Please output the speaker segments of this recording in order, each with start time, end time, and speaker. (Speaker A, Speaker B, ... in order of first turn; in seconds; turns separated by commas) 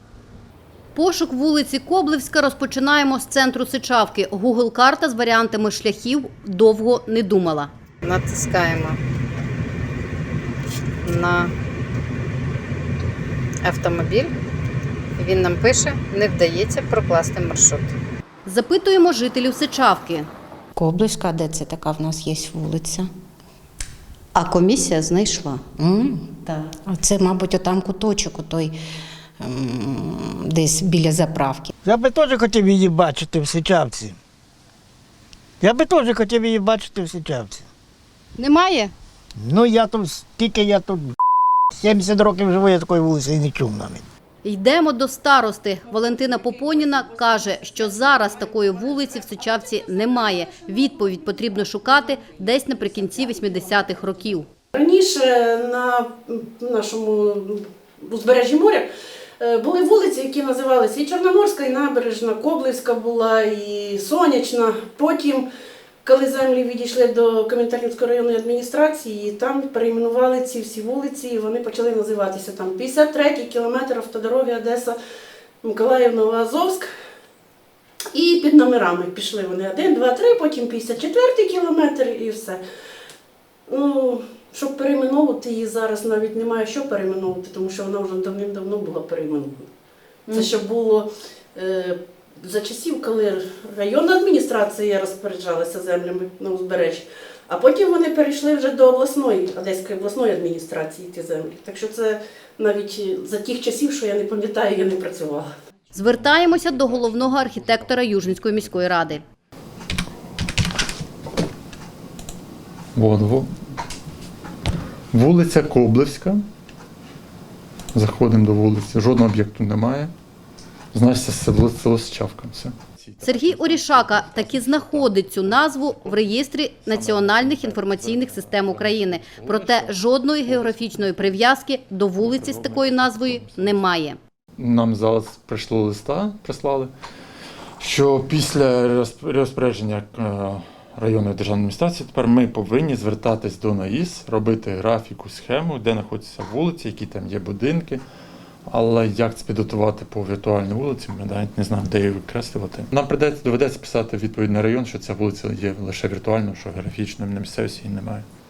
Speaker A: 0.9-9.0, Speaker A: 11.0-11.5, Speaker A: 13.6-14.3, Speaker A: 15.2-17.8, Speaker A: 18.4-20.3, Speaker B: 20.8-23.1, Speaker A: 24.4-25.7, Speaker B: 25.8-28.8, Speaker A: 26.5-26.7, Speaker B: 29.4-31.7, Speaker C: 31.8-34.2, Speaker C: 35.6-37.7, Speaker A: 38.4-38.9, Speaker C: 39.4-41.1, Speaker C: 41.8-44.1, Speaker A: 44.4-54.5, Speaker D: 54.7-58.9, Speaker D: 59.4-65.5, Speaker D: 66.0-75.0, Speaker D: 75.6-76.9, Speaker D: 78.1-82.6, Speaker D: 83.7-89.6, Speaker D: 90.3-105.5, Speaker E: 105.9-109.2, Speaker A: 105.9-109.2, Speaker E: 112.9-113.5, Speaker E: 115.1-116.4, Speaker E: 117.9-120.1, Speaker E: 120.9-131.3, Speaker A: 123.2-134.2, Speaker E: 132.2-133.8, Speaker E: 134.6-136.9, Speaker E: 137.8-148.0, Speaker E: 148.7-158.3